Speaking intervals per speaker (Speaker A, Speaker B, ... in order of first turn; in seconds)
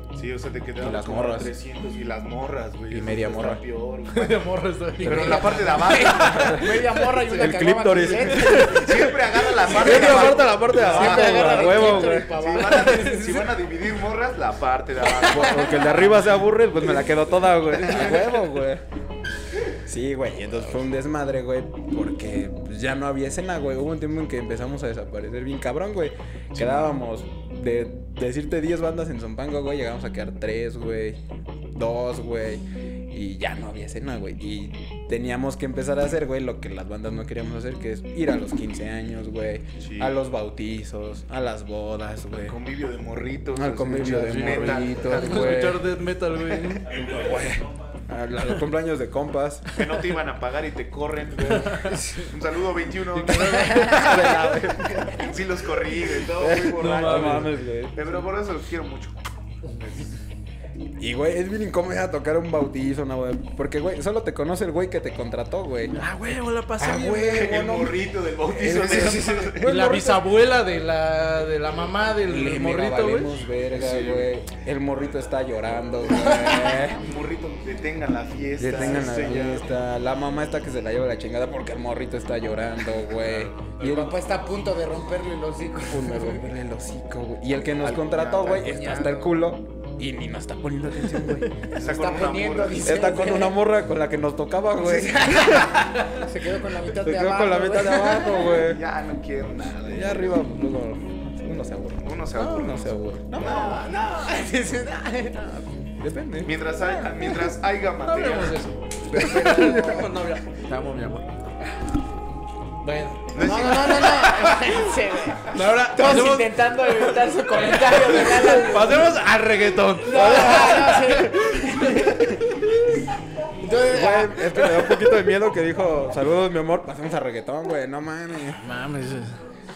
Speaker A: 0.1-4.4, 5.0-6.7, 8.4-16.1, 26.6-26.9, 39.8-40.2, 42.5-45.7, 46.9-47.5, 49.7-54.1, 55.2-59.2, 67.1-69.7, 73.7-74.3, 76.1-79.7, 83.2-83.5, 87.8-88.8, 91.7-93.1, 98.5-100.4, 102.0-103.9, 106.4-108.6, 113.3-114.3
Speaker B: 0.8-1.5, 2.9-3.6, 6.2-12.3, 15.2-18.8, 19.8-31.2, 31.7-42.6, 43.5-45.9, 46.9-49.7, 53.9-55.4, 56.3-58.0, 61.0-66.0, 66.8-70.2, 72.2-77.0, 78.6-84.2, 85.9-91.5, 92.8-95.9, 97.0-98.8, 99.8-102.1, 102.6-103.9, 105.4-107.3, 109.1-110.2, 120.1-120.9, 123.8-128.7
Speaker C: 4.1-6.7, 12.6-13.5, 44.0-46.9, 51.5-52.0, 53.1-54.4, 56.8-57.5, 66.0-67.5, 69.6-73.4, 102.3-102.8, 108.0-111.3, 112.8-114.6, 115.5-122.3, 128.6-129.3
Speaker D: 5.1-13.4, 15.2-16.1, 51.9-52.3, 53.7-54.0, 68.6-69.6, 83.8-86.4, 88.3-89.5, 91.2-93.6, 94.8-98.6, 103.4-105.6, 109.1-110.1, 113.4-119.1, 120.0-122.4, 123.6-125.1